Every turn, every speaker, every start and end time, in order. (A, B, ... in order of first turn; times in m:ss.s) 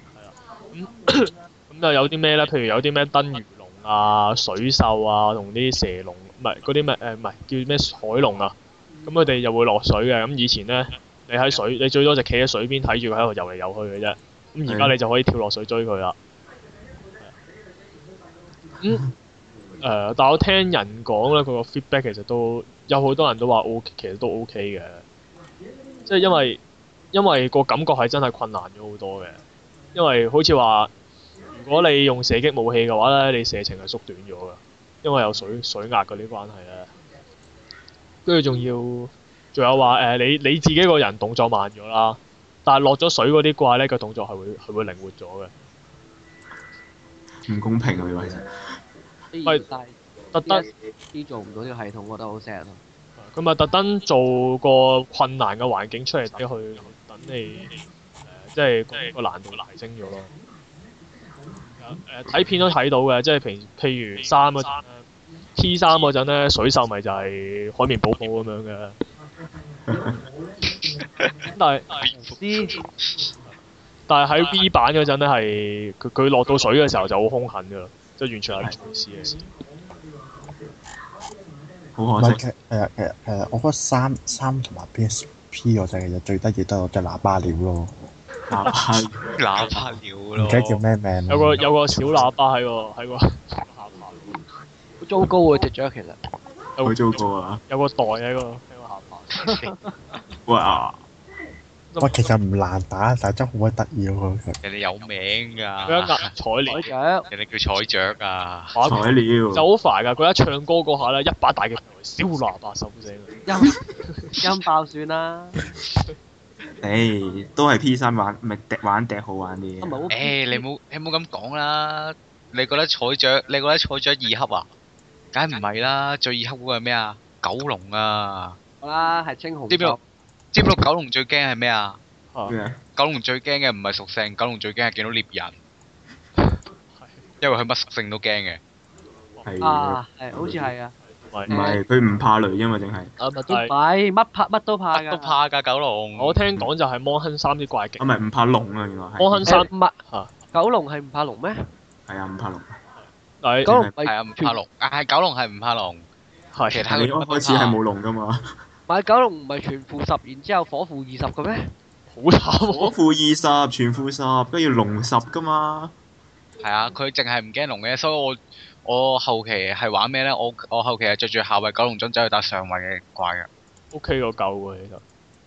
0:00.2-0:16.2 A
0:14.7-0:15.0 B
0:18.8-0:19.1 A
0:19.8-0:25.0 A
0:26.1-0:26.6 A
0:27.1-0:29.4 A
0:30.0-0:30.9 A
0:31.5-0:36.9 A
0:38.3-0:45.5 A
0:47.5-0:48.5 B
0:49.3-0:52.8 C
0:50.4-0:50.7 A
0:53.2-0:57.8 A
0:58.3-1:00.3 A
1:01.8-1:09.0 A
1:09.9-1:10.2 B
1:11.0-1:11.5 D
1:11.6-1:12.8 A
1:12.0-1:12.3 D
1:14.1-1:19.4 A
1:22.0-1:22.4 B
1:22.2-1:27.9 E
1:28.5-1:29.9 B
1:29.4-1:30.8 D
1:30.4-1:32.0 E
1:31.3-1:34.3 A
1:35.0-1:36.2 C
1:36.8-1:37.2 A
1:36.8-1:37.6 B
1:37.7-1:39.4 A
1:39.4-1:39.7 D
1:39.4-1:40.0 C
1:40.5-1:41.0 B
1:41.9-1:42.3 A
1:42.0-1:44.6 E
1:44.6-1:46.3 D
1:45.9-1:46.9 A
1:46.7-1:47.3 C
1:47.3-1:48.8 D
1:48.8-1:53.4 A
1:48.8-1:49.7 B
1:53.5-1:53.8 C
1:54.0-1:54.4 A
1:54.4-1:55.6 C
1:56.8-2:00.1 B
1:59.8-2:00.6 C
2:00.1-2:04.7 D
2:05.3-2:08.6 D
2:08.8-2:10.0 C
2:09.7-2:10.0 D
2:10.5-2:12.0 D
2:12.5-2:12.8 B
2:13.0-2:15.6 D
2:16.4-2:17.2 A
2:17.4-2:18.6 D
2:19.4-2:20.7 B
2:19.6-2:21.0 C
2:21.2-2:21.6 A
2:21.5-2:23.1 B
2:21.5-2:21.8 C
2:23.2-2:23.7 A
2:23.5-2:25.4 C
2:24.9-2:26.4 D
2:26.2-2:28.1 A
2:28.0-2:29.7 B
2:29.2-2:30.3 A
2:29.5-2:30.0 C
2:30.5-2:31.6 C
2:32.1-2:32.8 B
2:33.4-2:33.7 A
2:33.7-2:33.9 B
2:33.7-2:34.6 C
2:34.0-2:36.1 D
2:36.5-2:36.8 A
2:36.7-2:37.8 D
2:36.8-2:38.5 B
2:38.9-2:41.7 C
2:42.1-2:42.9 A
2:42.7-2:45.9 B
2:46.6-2:53.5 D
2:53.9-2:55.0 A